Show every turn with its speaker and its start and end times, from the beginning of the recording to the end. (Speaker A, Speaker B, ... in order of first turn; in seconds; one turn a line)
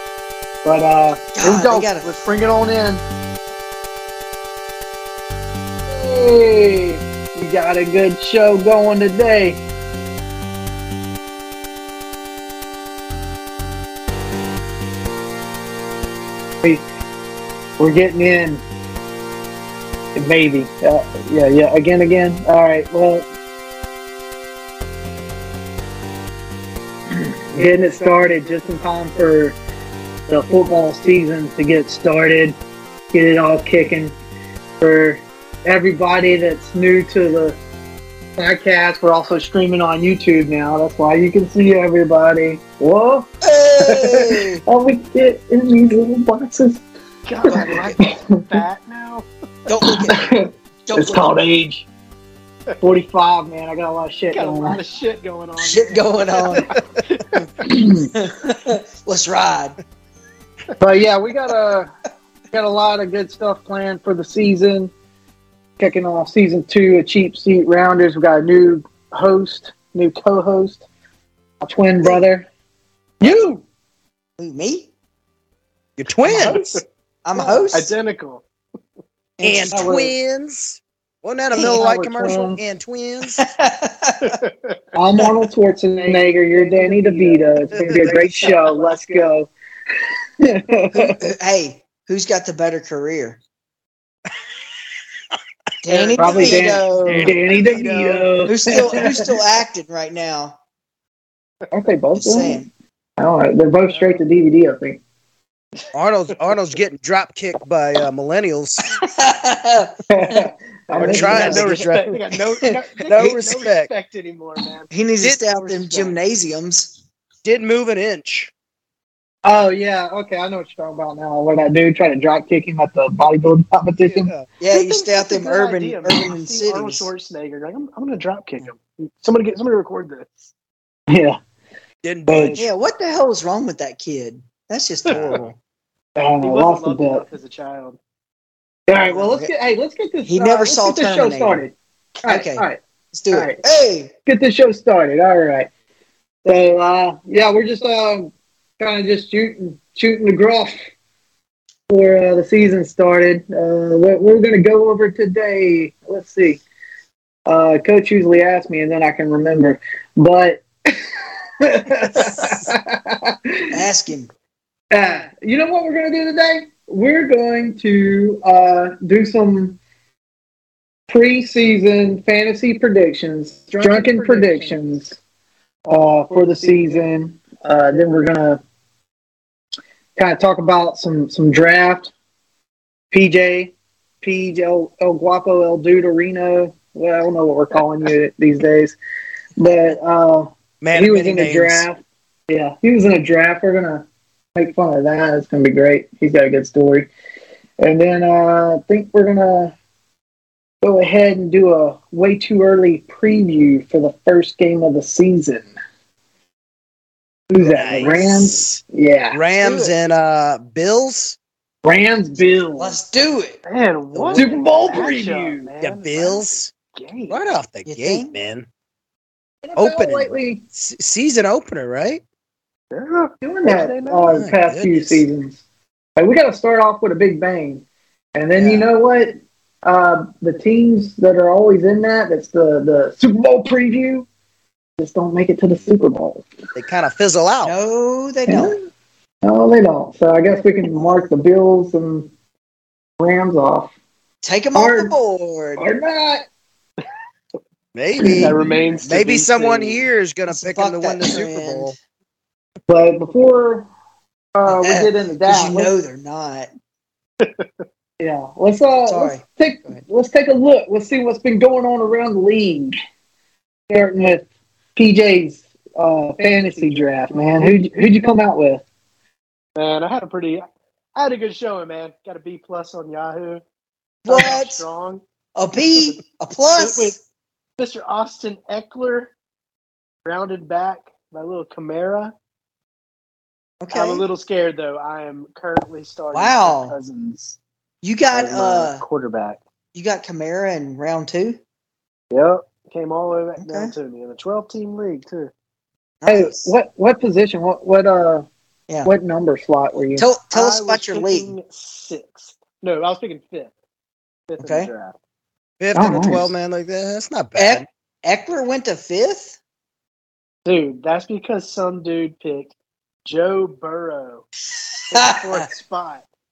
Speaker A: 0.6-3.0
Speaker B: 1.3-2.2
Speaker A: 5.9-9.6
Speaker A: 17.8-18.6
Speaker A: 20.1-23.3
Speaker A: 27.5-29.6
Speaker C: 27.7-28.7
Speaker A: 30.3-32.6
Speaker A: 33.1-34.1
Speaker A: 34.8-37.6
Speaker A: 38.4-43.3
Speaker B: 43.4-44.6
Speaker A: 43.8-46.8
Speaker C: 47.3-49.3
Speaker A: 47.5-48.1
Speaker B: 49.7-50.3
Speaker A: 49.8-51.9
Speaker B: 50.9-51.3
Speaker A: 52.8-54.8
Speaker C: 54.3-57.5
Speaker B: 55.6-56.7
Speaker A: 57.6-58.1
Speaker B: 58.1-59.8
Speaker A: 60.8-61.9
Speaker A: 62.5-64.9
Speaker A: 65.8-70.8
Speaker A: 71.6-72.5
Speaker A: 73.2-73.6
Speaker B: 74.4-74.9
Speaker D: 76.0-76.8
Speaker C: 76.2-76.8
Speaker B: 77.2-77.9
Speaker C: 77.3-78.4
Speaker B: 79.4-79.9
Speaker D: 79.4-83.4
Speaker A: 79.7-80.1
Speaker B: 81.5-81.8
Speaker A: 81.6-82.6
Speaker B: 83.2-84.4
Speaker C: 84.2-84.5
Speaker A: 84.9-89.5
Speaker C: 86.0-89.3
Speaker D: 87.7-88.5
Speaker A: 90.4-91.2
Speaker B: 90.9-93.4
Speaker B: 95.8-97.3
Speaker C: 95.9-96.8
Speaker A: 96.2-99.2
Speaker D: 97.0-98.3
Speaker B: 98.5-100.6
Speaker A: 101.7-105.0
Speaker B: 102.1-102.7
Speaker C: 103.9-104.2
Speaker D: 105.9-109.0
Speaker C: 106.3-106.7
Speaker B: 108.9-110.4
Speaker A: 110.1-111.6
Speaker B: 110.9-111.8
Speaker D: 111.0-112.2
Speaker C: 111.0-114.9
Speaker D: 113.1-113.9
Speaker B: 114.9-117.0
Speaker D: 115.2-116.1
Speaker D: 117.4-118.5
Speaker A: 119.4-124.3
Speaker D: 124.0-124.5
Speaker B: 124.6-127.1
Speaker C: 124.7-130.3
Speaker A: 131.1-131.4
Speaker D: 132.0-132.7
Speaker A: 132.3-132.6
Speaker B: 132.5-135.4
Speaker C: 135.1-135.4
Speaker D: 135.1-135.6
Speaker A: 136.2-137.2
Speaker C: 136.4-138.0
Speaker A: 138.9-142.8
Speaker B: 139.1-139.5
Speaker B: 140.2-141.6
Speaker B: 142.2-144.1
Speaker A: 143.3-143.6
Speaker A: 144.2-145.7
Speaker A: 146.4-150.8
Speaker A: 151.9-156.6
Speaker A: 157.4-160.7
Speaker A: 161.6-163.6
Speaker D: 162.2-162.7
Speaker B: 163.7-164.3
Speaker A: 164.9-169.8
Speaker A: 171.1-175.2
Speaker C: 173.7-175.0
Speaker A: 175.9-178.6
Speaker C: 176.3-177.0
Speaker A: 180.2-182.1
Speaker A: 183.1-188.9
Speaker A: 189.6-197.1
Speaker B: 189.6-190.0
Speaker D: 190.8-191.8
Speaker A: 197.8-199.7
Speaker A: 200.8-205.7
Speaker A: 207.5-209.4
Speaker D: 207.6-208.8
Speaker D: 209.3-211.4
Speaker B: 209.6-209.9
Speaker A: 211.8-213.0
Speaker B: 212.8-213.6
Speaker C: 213.7-217.4
Speaker D: 214.1-214.8
Speaker A: 214.3-215.7
Speaker D: 215.8-216.7
Speaker D: 217.3-218.7
Speaker B: 217.8-218.3
Speaker A: 219.6-220.6
Speaker D: 219.8-222.2
Speaker C: 222.9-224.3
Speaker A: 223.4-225.6
Speaker D: 224.3-225.2
Speaker A: 226.2-234.3
Speaker B: 228.6-228.8
Speaker A: 235.0-236.4
Speaker D: 236.7-237.7
Speaker B: 237.6-238.8
Speaker A: 238.5-238.8
Speaker A: 239.4-242.3
Speaker A: 243.2-243.9
Speaker B: 244.4-245.8
Speaker A: 244.7-245.2
Speaker A: 245.8-246.4
Speaker D: 247.9-251.9
Speaker A: 248.2-248.8
Speaker C: 248.3-250.1
Speaker B: 250.5-252.0
Speaker A: 252.9-253.9
Speaker A: 254.5-255.9
Speaker B: 254.7-256.7
Speaker C: 257.4-257.7
Speaker A: 258.2-262.9
Speaker B: 259.0-260.0
Speaker A: 263.9-268.8
Speaker C: 266.4-267.3
Speaker C: 269.8-270.6
Speaker C: 271.1-273.6
Speaker B: 274.2-274.8
Speaker C: 274.2-275.2
Speaker B: 275.6-277.2
Speaker C: 275.9-276.2
Speaker C: 276.7-277.1
Speaker C: 277.8-279.3
Speaker C: 280.2-282.3
Speaker B: 283.8-284.2
Speaker C: 283.9-287.6
Speaker B: 286.3-286.9
Speaker B: 288.0-289.0
Speaker C: 288.3-289.6
Speaker B: 289.9-291.6
Speaker C: 292.3-295.5
Speaker B: 293.6-293.9
Speaker B: 296.2-296.7
Speaker A: 296.2-298.5
Speaker A: 299.0-300.3
Speaker B: 300.1-301.5
Speaker C: 300.5-303.7
Speaker C: 304.5-305.1
Speaker B: 304.6-304.9
Speaker D: 305.8-307.9
Speaker A: 305.9-306.5
Speaker B: 307.6-309.6
Speaker C: 310.6-312.7
Speaker C: 313.2-314.4
Speaker C: 315.1-316.2
Speaker B: 315.1-315.7